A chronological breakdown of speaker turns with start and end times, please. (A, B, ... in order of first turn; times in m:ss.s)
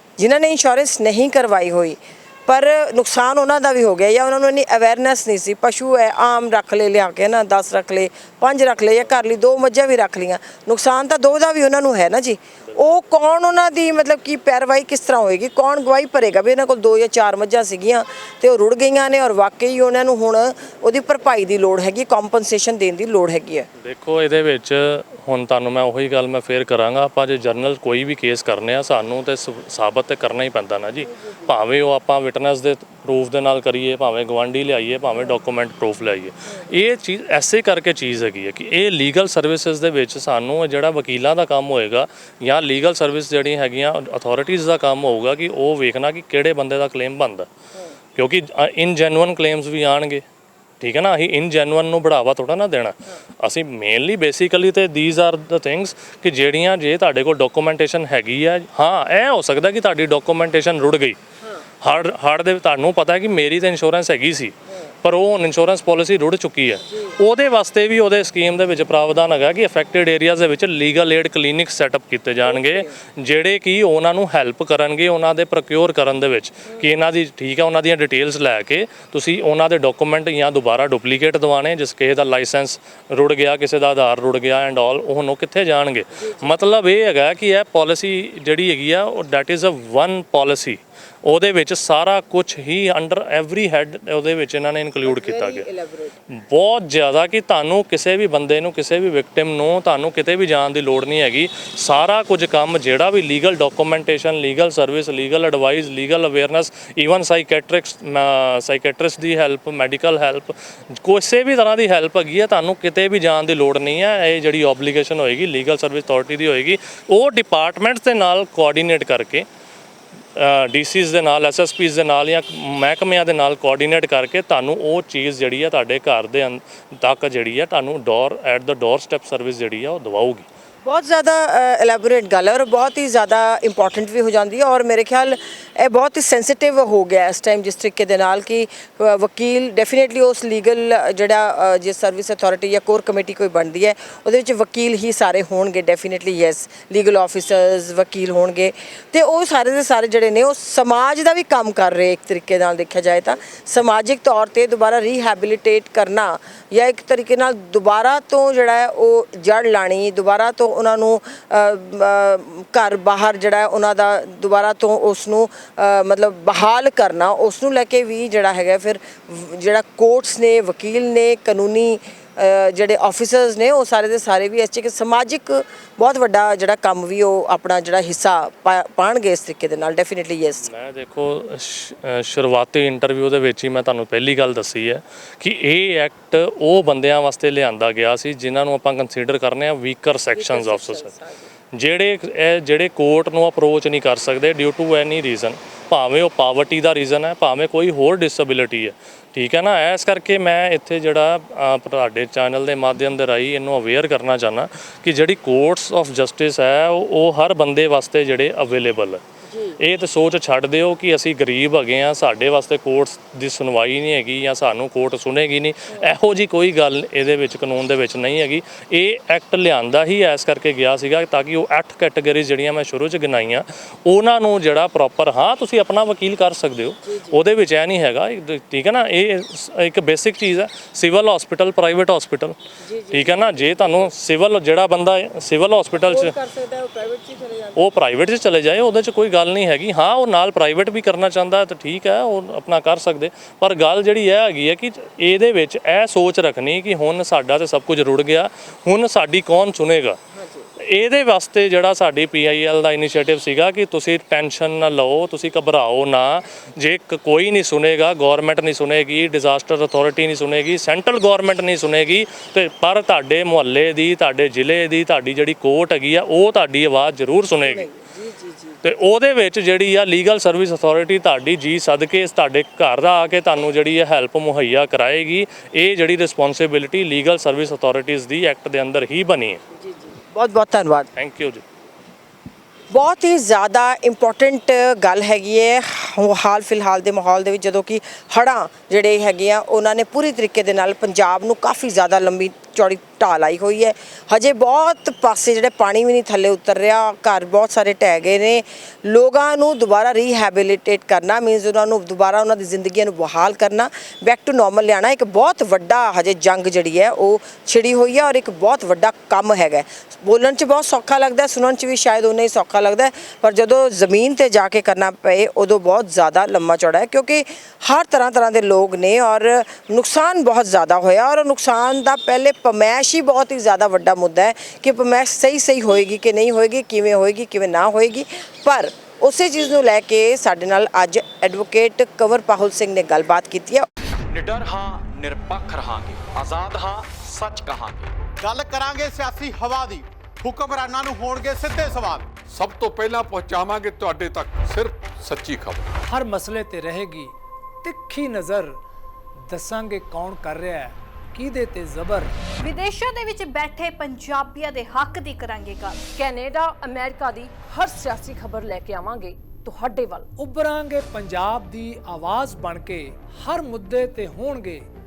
0:00.2-0:23.7 A
0:23.8-0:47.5 B
0:31.1-0:31.6 A
0:36.5-0:36.8 A
0:48.2-0:50.2 B
0:50.8-1:01.2 B
1:01.8-1:35.7 B
1:06.8-1:07.2 A
1:12.4-1:13.0 A
1:26.1-1:26.6 A
1:35.0-1:36.2 A
1:36.3-1:59.5 B
2:00.4-2:10.5 B
2:10.8-3:00.7 A
3:00.6-3:11.1 B
3:10.3-3:11.5 A
3:11.7-3:29.2 B
3:29.5-3:29.8 A
3:29.8-3:52.6 B
3:47.0-3:47.4 A
3:52.8-3:54.1 A
3:53.1-3:56.4 B
3:56.1-3:57.9 A
3:57.8-4:10.2 B
4:10.3-4:10.7 A
4:10.8-4:27.9 B
4:27.6-4:28.8 A
4:28.8-4:39.6 B
4:39.7-4:41.1 A
4:41.2-4:41.6 B
4:42.9-5:33.9 A
5:34.3-5:38.1 C
5:38.4-5:42.4 D
5:42.5-5:45.9 E
5:46.0-5:48.8 F
5:49.5-5:52.3 F
5:52.6-5:56.0 G
5:56.2-6:00.3 H
6:00.4-6:04.9 F